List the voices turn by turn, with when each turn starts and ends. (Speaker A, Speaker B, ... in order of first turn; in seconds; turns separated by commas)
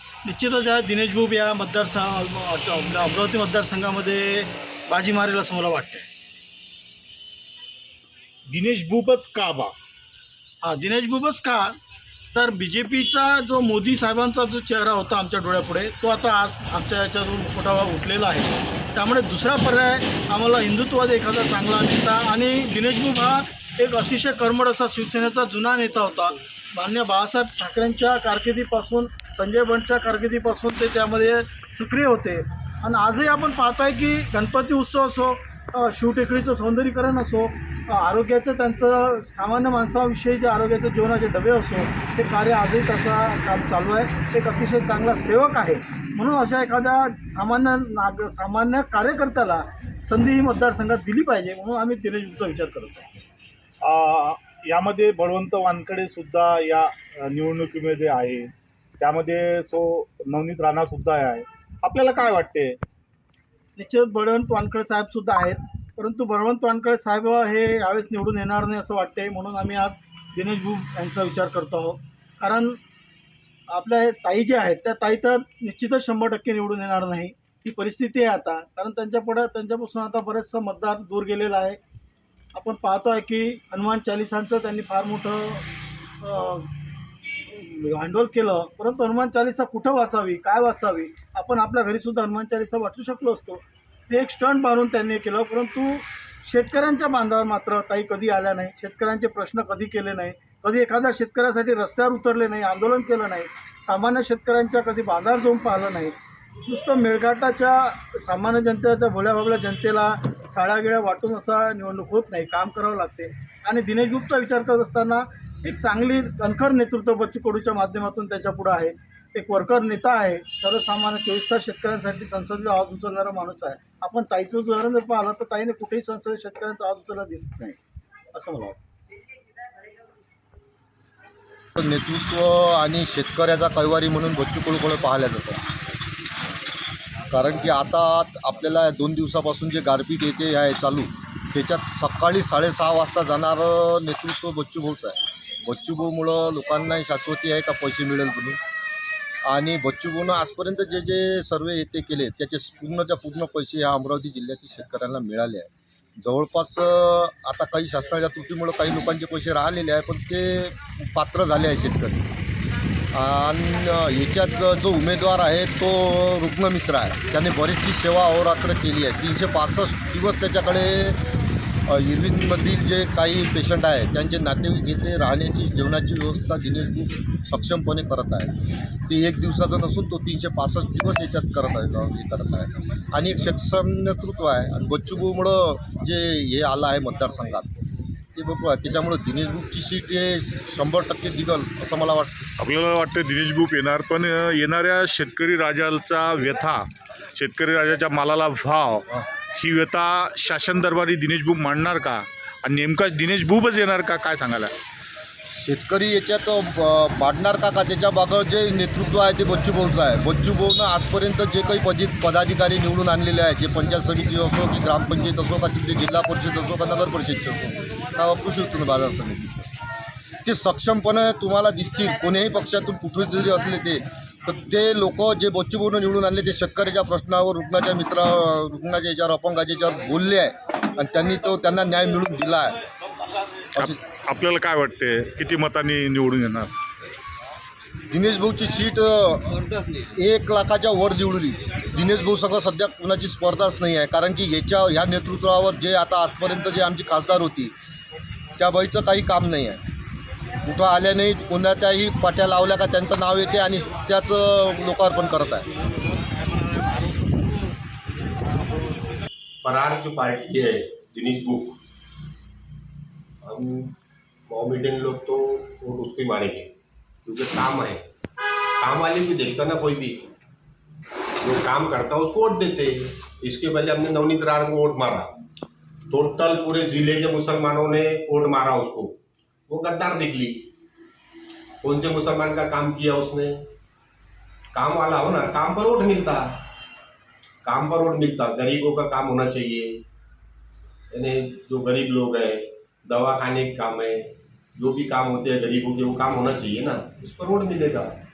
Speaker A: 0.2-6.1, Speaker B: 8.5-9.8, Speaker A: 10.6-11.7, Speaker A: 12.3-53.2, Speaker B: 53.8-62.8, Speaker A: 63.8-72.8, Speaker A: 73.7-81.8, Speaker A: 82.5-85.7, Speaker A: 86.2-86.7, Speaker A: 87.5-127.8, Speaker A: 128.3-128.8, Speaker C: 131.8-135.6, Speaker C: 137.3-148.6, Speaker C: 149.5-155.7, Speaker C: 156.2-162.3, Speaker C: 163.1-171.2, Speaker C: 171.9-178.6, Speaker C: 179.1-187.7, Speaker C: 188.3-192.5, Speaker D: 192.6-196.8, Speaker D: 197.4-204.7, Speaker C: 205.6-219.8, Speaker C: 220.4-232.8, Speaker D: 233.8-236.7, Speaker C: 238.1-239.6, Speaker C: 240.2-247.7, Speaker C: 248.6-249.8, Speaker C: 250.6-255.7, Speaker E: 259.6-261.8, Speaker E: 263.4-263.9, Speaker E: 264.5-266.7, Speaker E: 267.2-268.0, Speaker E: 268.8-270.3, Speaker E: 271.4-275.3, Speaker E: 276.1-279.2, Speaker E: 279.7-280.7, Speaker E: 281.8-283.6, Speaker E: 284.7-286.6, Speaker E: 287.6-290.0, Speaker E: 291.1-298.1